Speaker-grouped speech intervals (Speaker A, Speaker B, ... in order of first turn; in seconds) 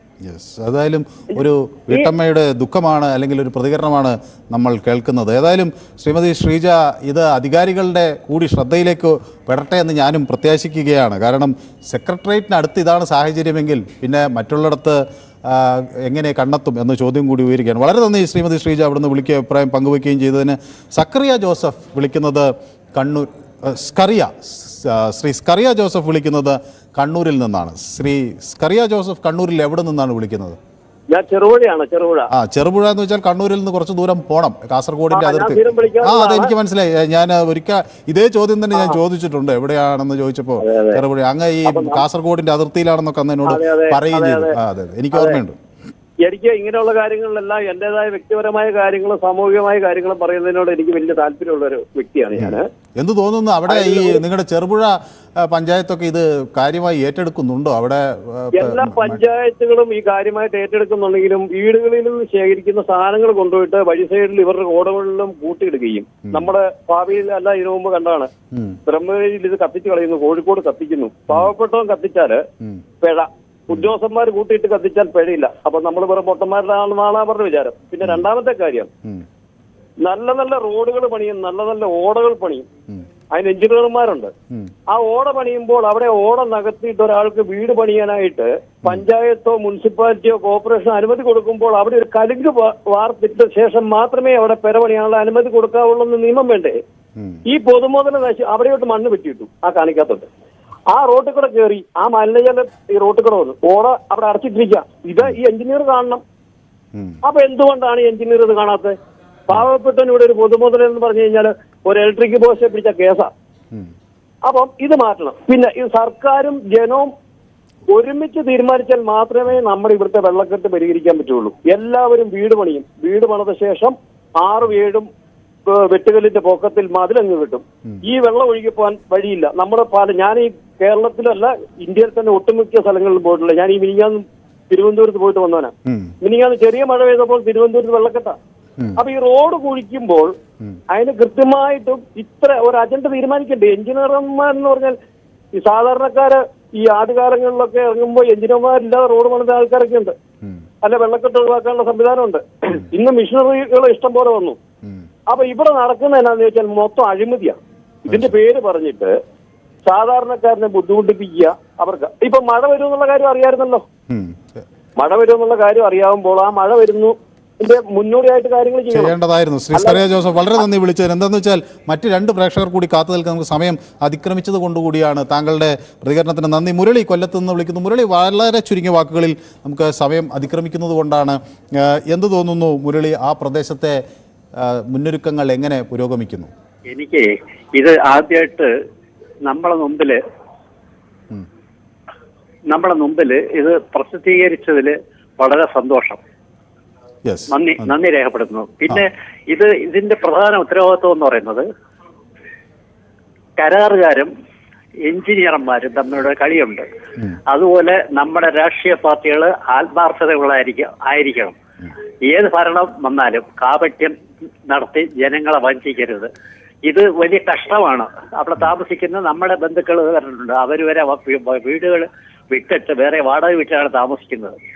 Speaker A: 0.2-30.6, 32.3-45.6, 52.4-59.2, 66.2-66.5, 68.5-68.8, 135.8-136.1, 158.1-158.3, 164.1-164.6, 168.9-184.0, 184.6-186.5, 197.2-197.9
Speaker B: 31.1-32.3, 35.1-36.5, 40.6-41.0, 41.6-42.0, 43.5-44.5, 45.1-45.4, 46.2-52.7, 53.7-54.2, 58.6-68.3, 68.8-72.4, 73.0-78.9, 80.0-82.7, 83.3-84.3, 84.9-96.8, 97.5-100.3, 100.9-106.2, 107.2-108.9, 109.5-113.3, 114.5-117.1, 117.9-125.0, 125.9-135.7, 136.2-138.3, 139.0-140.3, 140.9-144.9, 145.6-150.1, 150.8-154.6, 155.3-157.6, 158.1-159.1, 159.8-163.8, 165.0-169.1, 169.7-170.0
Speaker C: 186.9-188.7, 189.4-190.2, 192.7-196.2, 197.5-201.6, 203.6-204.3, 205.1-206.9, 207.5-211.6, 212.3-214.2, 214.7-216.3, 216.8-224.6